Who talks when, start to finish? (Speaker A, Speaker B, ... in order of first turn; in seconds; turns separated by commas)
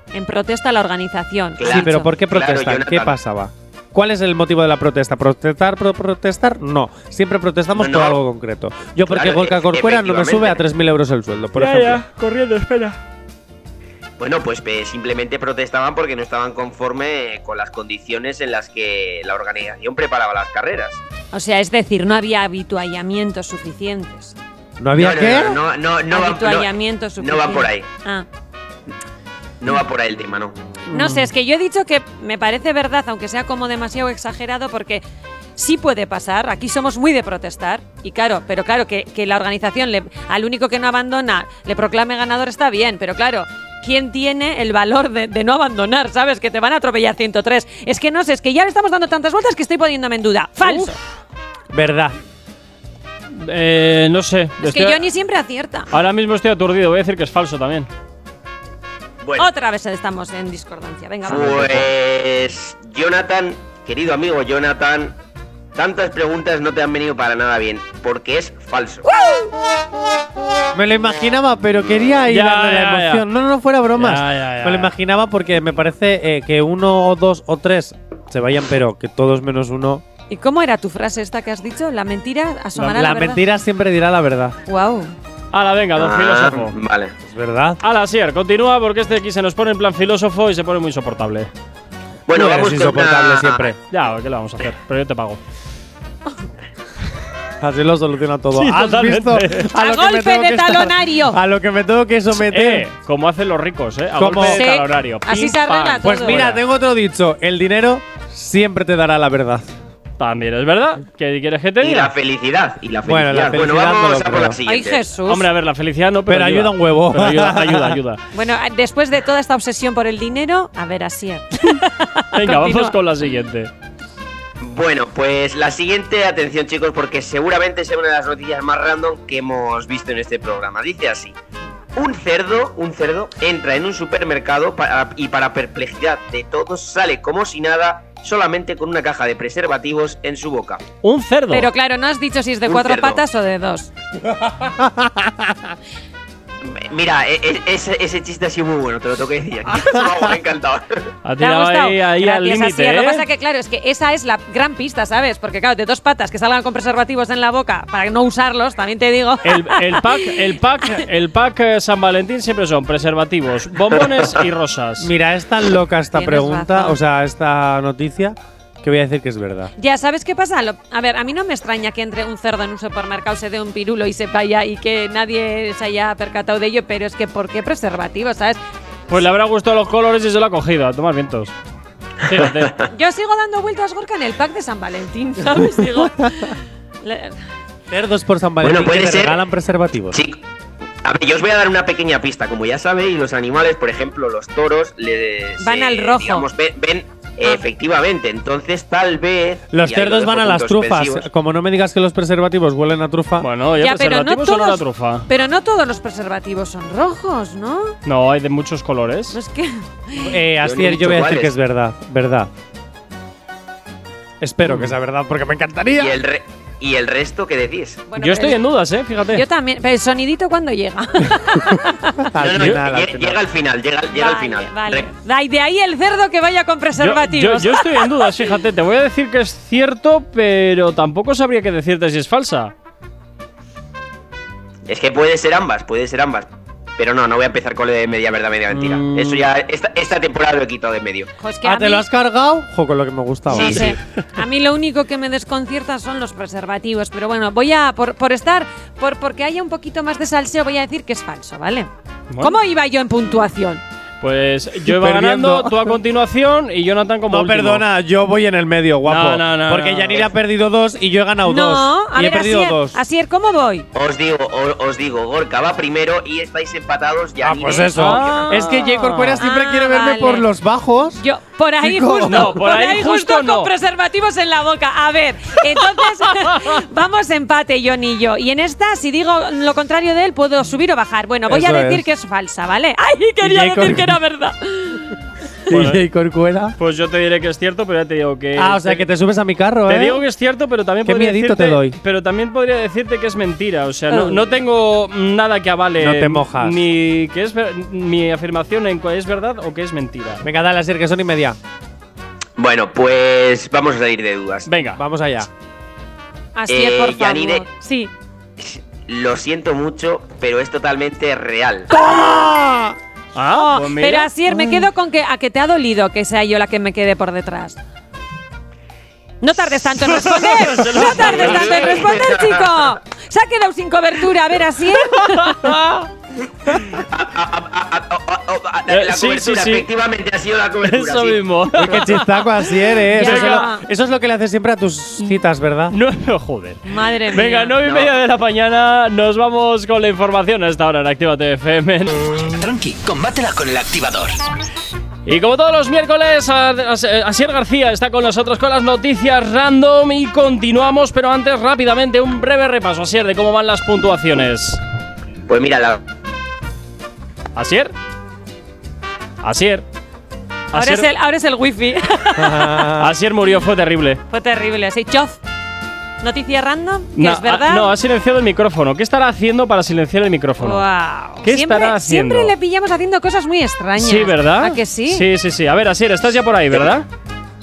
Speaker A: 0.1-2.2, Speaker B: 1.6-3.2, Speaker C: 1.6-12.0, Speaker B: 7.7-8.2, Speaker B: 9.1-10.6, Speaker D: 11.6-13.0, Speaker B: 14.2-21.0, Speaker A: 21.3-24.4, Speaker C: 24.8-25.6, Speaker B: 24.9-27.9, Speaker A: 26.1-28.2, Speaker B: 29.6-30.6, Speaker A: 30.9-35.0, Speaker A: 35.5-51.0, Speaker D: 50.6-50.9, Speaker C: 51.7-52.1, Speaker D: 53.3-55.0, Speaker A: 54.6-55.9, Speaker D: 55.9-57.9, Speaker B: 59.2-59.5, Speaker A: 59.4-61.8, Speaker B: 61.2-65.2, Speaker B: 65.7-69.0, Speaker C: 70.7-80.0, Speaker D: 72.3-73.2, Speaker D: 74.0-74.9, Speaker A: 80.3-83.4, Speaker C: 82.8-84.6, Speaker A: 84.7-85.1, Speaker D: 85.5-86.8, Speaker B: 86.0-87.1, Speaker C: 87.3-87.8, Speaker D: 87.8-91.5, Speaker B: 92.3-93.7, Speaker C: 92.3-93.8, Speaker D: 93.9-95.4, Speaker C: 97.6-102.9, Speaker D: 98.5-99.7, Speaker A: 99.7-101.4, Speaker D: 102.3-106.6, Speaker C: 104.2-104.6, Speaker A: 104.3-106.5, Speaker C: 106.0-109.7, Speaker D: 110.2-112.1, Speaker B: 111.8-115.1, Speaker C: 113.0-114.6, Speaker A: 114.7-115.5, Speaker D: 115.3-118.2, Speaker C: 116.3-118.0, Speaker A: 118.3-123.0, Speaker D: 122.3-123.7, Speaker B: 124.6-131.3, Speaker B: 131.9-140.8, Speaker D: 141.0-141.7, Speaker A: 141.5-143.9, Speaker B: 142.7-143.2, Speaker C: 144.6-145.3, Speaker B: 146.6-151.1, Speaker D: 151.2-153.2, Speaker A: 151.4-161.0, Speaker D: 159.4-165.1, Speaker C: 165.0-169.7, Speaker A: 166.1-167.0, Speaker A: 169.8-178.6, Speaker D: 179.1-181.5, Speaker D: 182.2-182.7, Speaker B: 182.3-182.8, Speaker A: 182.9-187.3, Speaker C: 187.9-190.2, Speaker B: 188.6-189.4, Speaker B: 190.1-190.4, Speaker B: 191.0-201.3, Speaker A: 195.6-196.5, Speaker C: 199.7-203.5, Speaker D: 203.4-205.3, Speaker A: 203.8-207.9, Speaker D: 208.1-209.3, Speaker A: 209.3-210.4, Speaker C: 210.2-212.5, Speaker B: 210.6-211.5, Speaker C: 214.4-216.2, Speaker D: 214.6-214.9, Speaker B: 216.0-218.1, Speaker A: 218.1-218.6, Speaker D: 218.2-219.4, Speaker A: 219.3-222.3, Speaker C: 222.3-223.4, Speaker B: 222.4-225.1, Speaker A: 224.1-228.3, Speaker D: 227.0-232.7, Speaker B: 234.8-241.3, Speaker D: 238.7-239.5, Speaker A: 241.4-242.1, Speaker C: 241.6-243.8, Speaker B: 243.5-243.9, Speaker D: 243.5-243.9, Speaker A: 243.7-251.9, Speaker D: 252.3-252.6, Speaker A: 252.4-253.8, Speaker D: 254.2-257.8, Speaker C: 254.8-256.0, Speaker C: 257.3-263.0, Speaker D: 259.1-260.2, Speaker A: 261.4-263.9, Speaker B: 263.9-268.6, Speaker C: 267.4-271.2, Speaker D: 267.9-269.4, Speaker A: 269.4-270.5, Speaker A: 271.2-285.2, Speaker C: 271.8-272.6, Speaker D: 272.2-273.7, Speaker D: 275.9-276.8, Speaker C: 281.4-282.0, Speaker C: 283.4-284.1, Speaker C: 285.7-286.8, Speaker D: 285.7-286.0, Speaker D: 286.8-289.0, Speaker C: 288.6-290.2, Speaker D: 289.9-300.4, Speaker C: 291.0-292.0, Speaker C: 296.0-296.8, Speaker C: 300.4-301.6, Speaker B: 302.6-304.7, Speaker D: 304.6-305.0, Speaker C: 304.9-305.5, Speaker A: 306.5-308.1, Speaker B: 306.7-307.7, Speaker B: 308.6-311.9, Speaker C: 311.9-312.9, Speaker D: 313.3-314.3, Speaker A: 313.5-317.8, Speaker A: 319.4-325.8, Speaker D: 320.0-322.1, Speaker B: 321.4-322.8, Speaker D: 325.2-326.1, Speaker B: 326.9-332.0, Speaker D: 328.9-329.9, Speaker D: 330.8-332.6, Speaker C: 331.7-335.9, Speaker A: 333.1-333.8, Speaker D: 333.2-333.7, Speaker D: 335.9-342.2, Speaker A: 336.9-337.8, Speaker B: 337.8-338.1, Speaker E: 342.4-344.4, Speaker D: 345.2-354.8, Speaker B: 355.5-356.0, Speaker D: 357.5-357.9, Speaker D: 359.4-359.9, Speaker D: 360.7-361.1, Speaker A: 360.7-362.9, Speaker C: 362.4-363.1, Speaker D: 363.0-364.2, Speaker A: 364.3-365.4, Speaker A: 366.2-367.9, Speaker D: 367.1-370.9, Speaker A: 370.6-375.3, Speaker D: 371.4-372.5, Speaker D: 374.0-377.1